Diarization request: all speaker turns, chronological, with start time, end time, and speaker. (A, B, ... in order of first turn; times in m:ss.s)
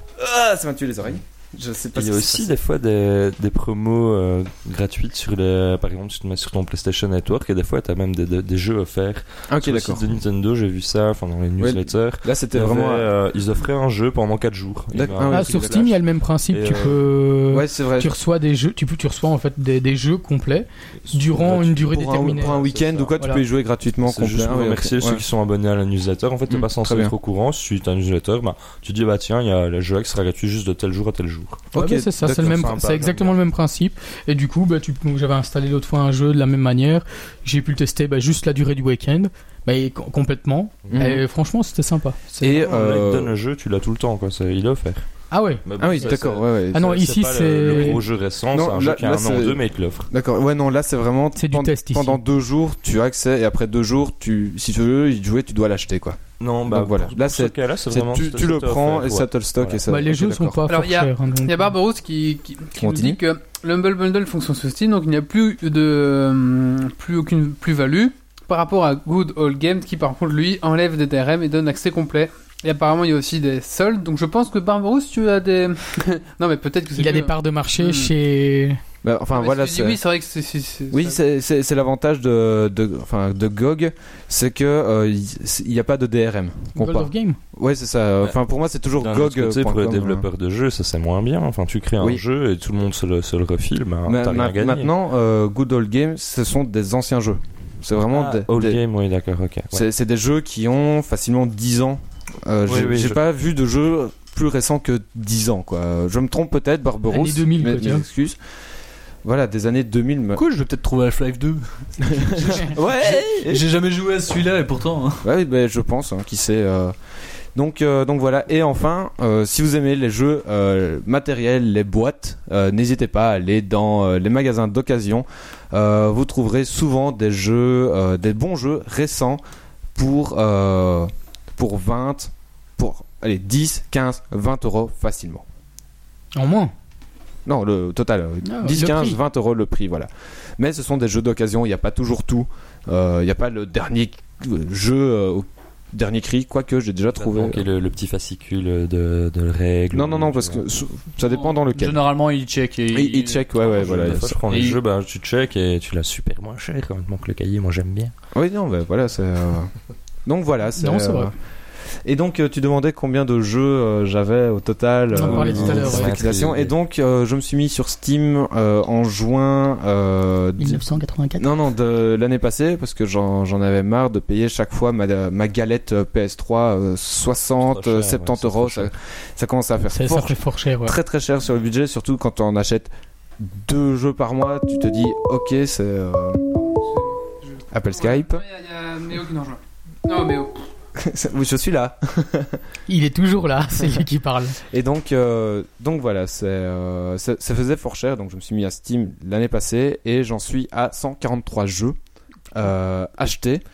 0:00.2-0:02.5 A
0:01.9-0:15.8 B
0:09.5-0:10.0 A
0:11.6-0:13.1 A
0:14.9-0:16.0 A
0:15.3-0:22.7 C
0:16.5-0:16.9 B
0:17.5-0:18.2 A
0:21.2-0:21.6 B
0:21.4-0:25.2 A
0:22.3-0:23.2 B
0:23.2-0:23.4 C
0:24.0-0:31.7 B
0:26.5-0:27.1 A
0:31.7-0:33.1 A
0:31.7-0:42.6 C
0:32.2-0:33.3 B
0:40.9-0:41.2 A
0:42.4-0:43.3 A
0:42.4-0:45.0 B
0:45.3-0:46.1 C
0:45.6-0:50.1 B
0:45.8-0:47.1 A
0:46.7-0:48.0 C
0:47.7-1:00.6 A
0:51.3-0:52.2 C
0:56.4-0:59.8 B
0:59.9-1:01.7 C
1:00.7-1:18.1 D
1:02.8-1:03.2 A
1:17.0-1:18.8 C
1:19.0-1:20.0 A
1:19.3-1:21.2 D
1:20.9-1:30.2 A
1:26.7-1:27.4 C
1:29.0-1:34.9 B
1:34.0-1:38.8 A
1:38.1-1:39.8 B
1:39.7-1:48.4 A
1:42.6-1:43.2 B
1:47.1-1:48.0 C
1:49.2-1:50.4 A
1:50.4-1:55.2 E
1:52.0-1:53.6 A
1:55.2-1:56.9 A
1:57.6-2:09.4 A
2:09.9-2:15.4 A
2:16.3-2:16.7 C
2:17.4-2:27.6 A
2:18.4-2:19.2 C
2:27.1-2:30.6 B
2:29.9-2:32.0 A
2:31.2-2:34.8 E
2:32.9-2:34.4 A
2:33.6-2:38.1 B
2:38.3-2:39.7 A
2:40.2-2:41.3 A
2:40.8-2:41.3 C
2:42.0-2:50.9 A
2:45.1-2:46.2 C
2:45.2-2:46.7 B
2:50.6-2:51.5 C
2:51.4-3:06.4 A
2:57.6-2:58.9 B
2:59.9-3:01.0 C
3:06.6-3:10.6 D
3:07.7-3:08.4 A
3:10.9-3:12.6 A
3:12.9-3:14.6 C
3:14.7-3:22.0 A
3:22.5-3:23.6 A